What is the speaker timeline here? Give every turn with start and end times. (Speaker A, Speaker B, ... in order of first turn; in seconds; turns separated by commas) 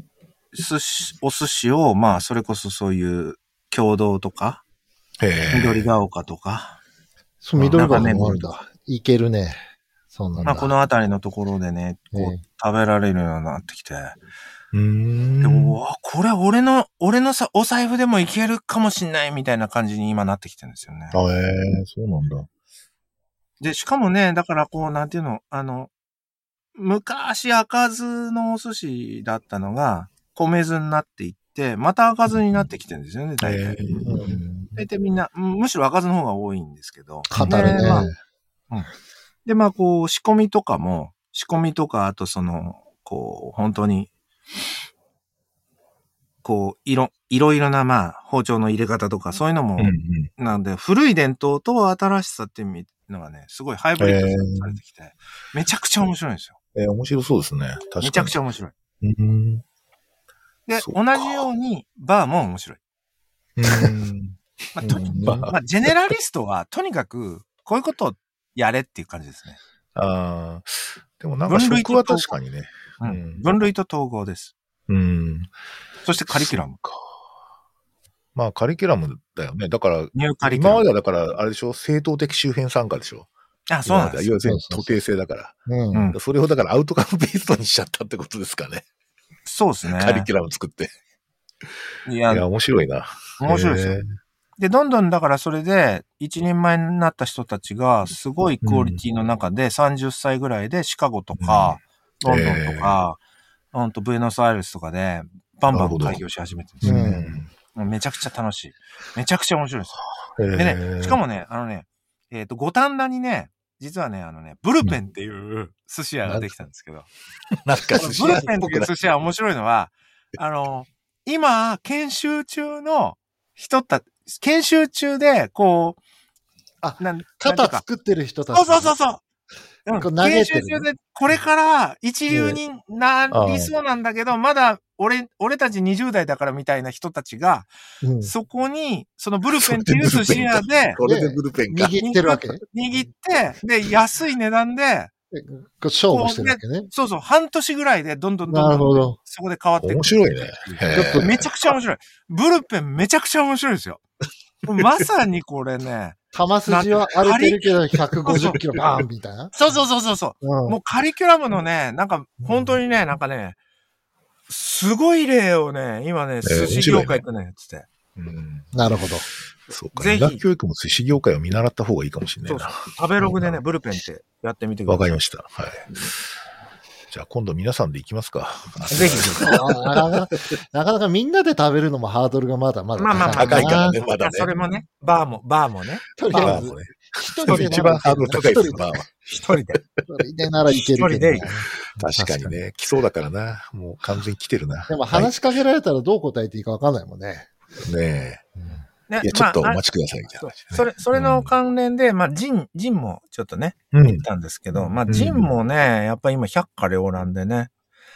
Speaker A: 0.5-4.6, Speaker B: 5.2-5.9, Speaker A: 5.5-6.8, Speaker C: 7.4-9.6, Speaker B: 7.5-8.3, Speaker A: 7.7-8.5, Speaker C: 10.1-10.7, Speaker A: 10.4-14.2, Speaker C: 12.1-12.4, Speaker B: 14.7-15.8, Speaker A: 15.4-21.2, Speaker B: 21.1-22.5, Speaker A: 23.6-25.9, Speaker A: 26.8-33.8, Speaker B: 33.4-34.4, Speaker C: 34.0-34.8, Speaker A: 34.8-38.1, Speaker C: 37.3-38.1, Speaker B: 37.4-38.1, Speaker A: 39.5-44.1, Speaker A: 46.4-56.5, Speaker B: 49.8-50.3, Speaker B: 54.0-54.8, Speaker B: 56.7-58.4, Speaker A: 58.0-58.7, Speaker B: 59.0-59.6, Speaker A: 60.7-62.8, Speaker B: 60.8-61.5, Speaker B: 63.6-64.4, Speaker A: 64.8-69.6, Speaker C: 64.8-65.5, Speaker B: 65.2-65.5, Speaker B: 70.0-73.5, Speaker A: 71.5-72.3, Speaker A: 73.0-74.5, Speaker B: 74.9-75.5, Speaker A: 76.0-76.8, Speaker B: 76.3-77.0, Speaker B: 78.3-83.3, Speaker A: 80.1-80.9, Speaker A: 83.7-84.3, Speaker B: 83.8-85.6, Speaker C: 84.4-85.0, Speaker C: 85.7-86.1, Speaker B: 86.1-88.8, Speaker A: 89.5-90.3, Speaker B: 89.9-90.9, Speaker A: 92.0-92.5, Speaker B: 92.3-94.0, Speaker A: 93.4-94.0, Speaker A: 94.6-103.2, Speaker B: 98.6-99.0, Speaker B: 101.4-103.0, Speaker A: 103.7-107.1, Speaker B: 105.7-106.2, Speaker B: 106.8-107.5, Speaker C: 106.8-107.4, Speaker A: 107.7-110.0, Speaker B: 110.4-111.2, Speaker A: 110.5-117.1, Speaker B: 116.3-116.5, Speaker B: 117.6-118.9, Speaker A: 118.0-126.0, Speaker C: 126.8-128.9, Speaker A: 127.0-127.8, Speaker A: 128.5-129.2, Speaker A: 129.9-137.7, Speaker C: 130.0-130.9, Speaker C: 132.3-132.6, Speaker B: 133.3-133.7, Speaker C: 138.0-138.3, Speaker A: 138.2-141.0, Speaker B: 139.6-141.9, Speaker C: 141.0-142.6, Speaker A: 142.0-145.1, Speaker C: 145.3-146.9, Speaker A: 146.1-154.0, Speaker C: 148.5-149.2, Speaker B: 149.8-151.5, Speaker C: 150.9-151.4, Speaker A: 154.6-157.7, Speaker C: 156.3-159.5, Speaker A: 158.2-158.9, Speaker A: 159.5-163.6, Speaker C: 160.4-160.8, Speaker A: 164.5-167.9, Speaker B: 166.4-167.2, Speaker B: 168.2-168.7, Speaker C: 168.7-169.3, Speaker B: 169.7-173.6, Speaker A: 169.9-170.4, Speaker A: 172.4-175.1, Speaker B: 174.9-175.9, Speaker B: 177.1-179.9, Speaker A: 178.9-179.6, Speaker C: 179.3-184.0, Speaker A: 182.9-186.6, Speaker B: 183.1-184.5, Speaker C: 186.2-189.0, Speaker B: 186.3-189.6, Speaker A: 187.5-188.7, Speaker A: 189.3-189.8, Speaker C: 190.1-192.6, Speaker A: 190.8-191.5, Speaker B: 191.9-195.4, Speaker C: 194.9-197.5, Speaker B: 197.8-198.4, Speaker A: 199.1-199.8, Speaker B: 199.2-201.5, Speaker A: 200.4-207.7, Speaker B: 203.9-205.5